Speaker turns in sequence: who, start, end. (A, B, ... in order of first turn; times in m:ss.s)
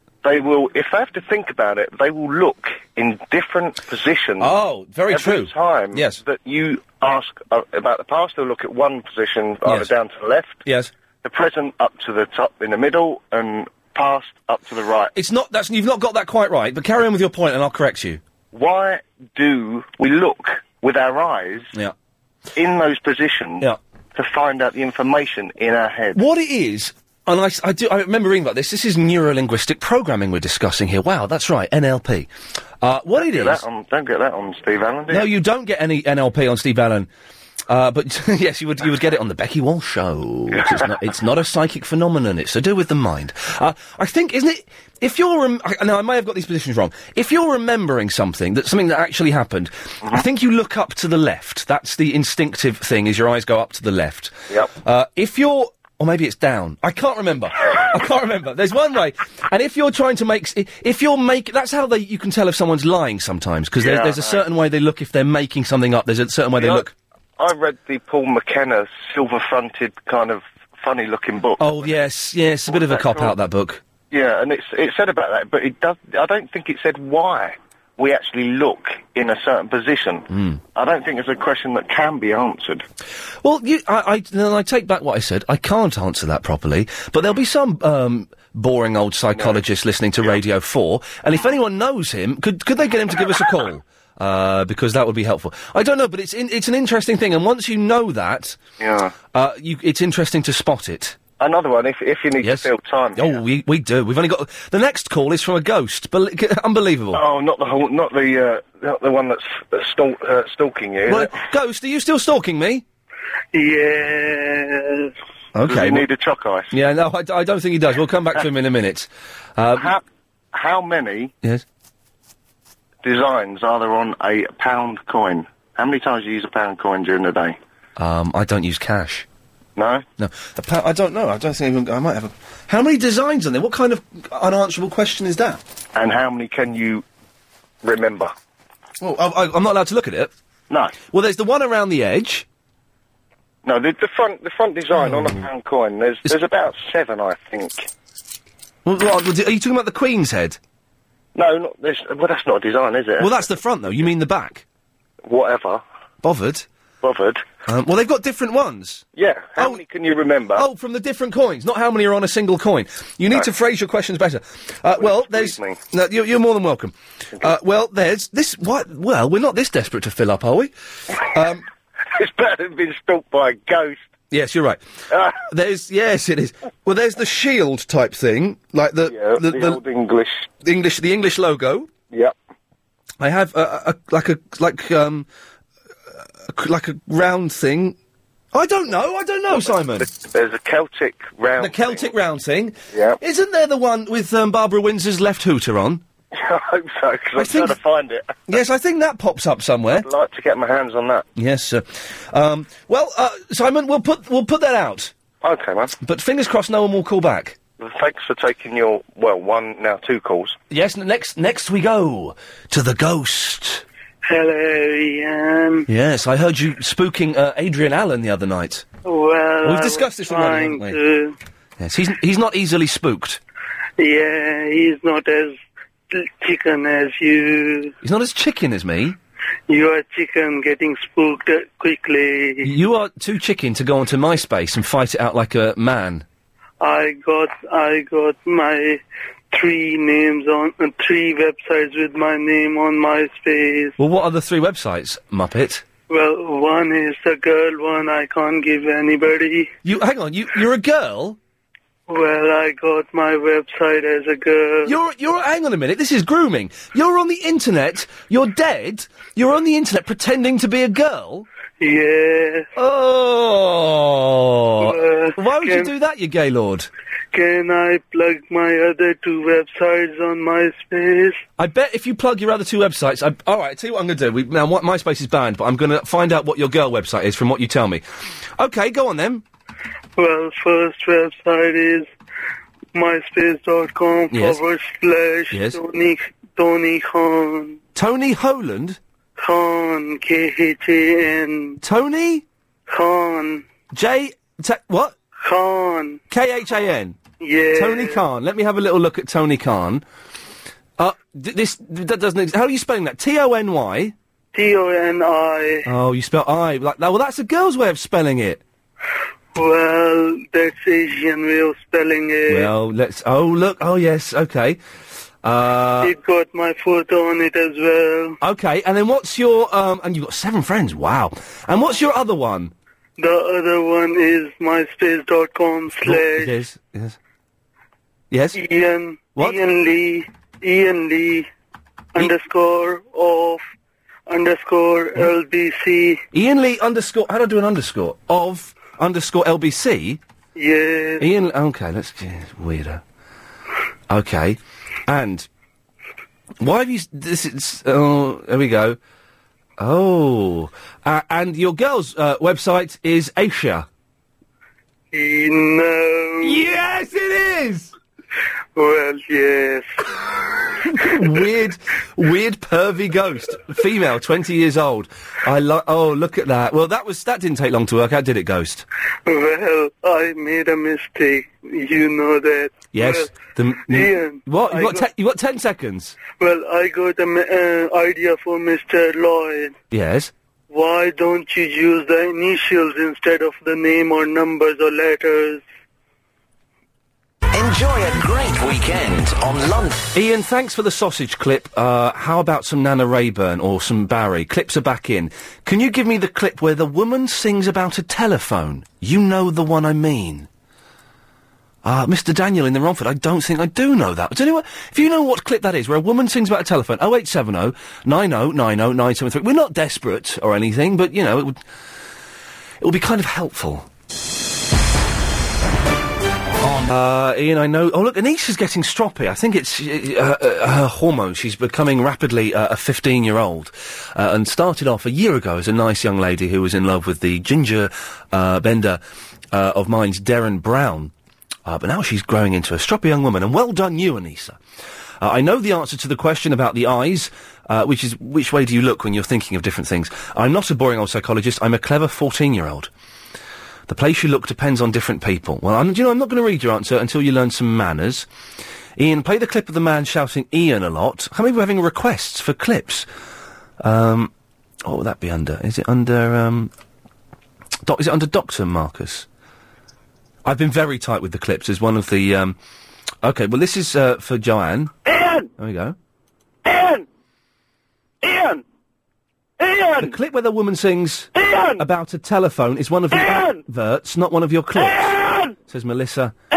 0:00.2-0:04.5 A
0:04.4-0:06.2 B
0:05.1-0:10.6 A
0:10.6-0:10.9 B
0:11.2-0:15.1 A
0:15.1-0:18.2 B
0:18.5-0:21.7 A
0:22.6-0:26.2 A
0:26.2-0:32.3 B
0:32.8-0:33.6 B
0:33.2-0:35.3 A
0:35.1-0:37.1 B
0:37.7-1:06.9 B
0:40.6-0:40.8 A
1:03.8-1:04.4 A
1:06.6-1:06.9 A
1:07.4-1:12.0 A
1:11.6-1:13.8 B
1:12.7-1:13.3 A
1:14.1-1:22.8 A
1:20.3-1:20.6 B
1:23.4-1:38.6 B
1:38.8-1:39.2 A
1:39.3-1:41.2 B
1:41.4-1:43.4 A
1:42.4-1:47.2 B
1:47.1-1:51.3 A
1:51.1-1:52.8 B
1:53.5-1:55.1 C
1:55.6-1:56.0 B
1:55.7-1:56.7 A
1:56.7-1:59.9 B
1:59.8-2:00.0 A
2:00.5-2:01.3 A
2:03.0-2:07.6 A
2:08.0-2:09.3 B
2:09.8-2:10.0 A
2:10.2-2:15.6 B
2:16.0-2:17.0 A
2:17.8-2:18.3 A
2:19.0-2:20.3 B
2:20.7-2:21.0 A
2:21.1-2:22.5 B
2:23.6-2:27.9 A
2:25.0-2:25.4 B
2:28.8-2:30.6 B
2:31.4-2:33.5 A
2:33.2-2:34.6 B
2:35.2-2:35.8 A
2:36.2-2:36.7 B
2:37.0-2:37.4 A
2:37.7-2:39.0 B
2:39.2-2:40.6 A
2:40.6-2:51.6 B
2:45.0-2:45.8 A
2:52.2-2:54.0 A
2:54.3-2:54.8 B
2:55.3-2:59.8 B
2:59.1-3:00.5 A
3:00.6-3:01.9 B
3:03.2-3:05.3 B
3:06.4-3:08.0 B
3:08.5-3:10.1 B
3:10.0-3:12.1 A
3:11.6-3:16.0 B
3:12.9-3:13.2 A
3:16.3-3:18.5 A
3:17.4-3:17.8 B
3:18.5-3:20.1 B
3:19.9-3:21.3 A
3:21.4-3:25.1 B
3:25.4-3:25.9 A
3:26.0-3:27.6 B
3:27.8-3:30.6 A
3:30.7-3:33.8 B
3:34.3-3:35.9 C
3:35.9-3:38.8 B
3:39.0-3:41.4 C
3:39.6-3:41.0 B
3:41.8-3:43.4 B
3:44.0-3:45.6 C
3:46.1-3:47.9 C
3:48.0-3:49.2 B
3:49.7-3:52.7 C
3:52.6-3:56.2 B
3:56.8-4:04.0 C
4:04.0-4:05.8 B
4:06.1-4:09.7 C
4:09.8-4:11.4 B
4:12.1-4:15.0 C
4:14.9-4:21.5 B
4:21.8-4:22.7 C
4:22.8-4:26.9 B
4:24.8-4:25.9 C
4:27.3-4:31.4 C
4:31.6-4:38.0 B
4:38.6-4:39.4 B
4:40.2-4:42.1 C
4:42.9-4:47.8 C
4:44.3-4:44.6 B
4:45.5-4:45.8 B
4:48.0-4:49.0 B
4:49.4-4:51.8 C
4:51.8-4:52.4 B
4:52.9-4:53.6 C
4:53.9-4:55.2 B
4:55.4-4:56.2 C
4:56.3-4:57.2 B
4:57.4-4:58.2 C
4:57.8-5:00.0 B
5:01.0-5:04.2 B
5:04.5-5:05.9 C
5:05.8-5:08.6 B
5:09.5-5:12.7 C
5:12.5-5:14.8 B
5:15.4-5:16.1 B
5:16.0-5:18.4 C
5:18.4-5:22.7 B
5:23.2-5:26.5 C
5:26.0-5:27.2 B
5:28.3-5:28.6 B
5:28.6-5:31.5 C
5:32.2-5:33.6 C
5:34.3-5:36.2 C
5:36.3-5:40.2 B
5:40.6-5:41.2 C
5:41.2-5:43.0 B
5:44.1-5:45.5 B
5:46.6-5:49.0 B
5:49.8-5:53.9 B
5:55.1-5:56.6 C
5:56.4-5:57.9 B
5:58.8-5:59.9 C
6:00.9-6:08.9 B
6:09.3-6:13.3 C
6:12.9-6:16.2 B
6:13.9-6:15.1 C
6:16.4-6:19.8 C
6:19.9-6:20.3 B
6:20.7-6:25.6 C
6:27.5-6:30.0 D
6:30.1-6:40.5 B
6:41.8-6:51.6 B
6:52.8-6:53.9 B
6:56.6-7:09.0 B
7:09.5-7:11.1 B
7:11.7-7:14.6 B
7:15.2-7:22.9 B
7:23.9-7:28.3 B
7:29.0-7:33.1 B
7:33.8-7:34.3 B
7:34.8-7:36.7 B
7:37.9-7:39.3 B
7:40.4-7:42.6 B
7:43.2-7:45.0 B
7:45.6-7:46.0 B
7:48.3-7:48.6 D
7:50.0-7:56.4 B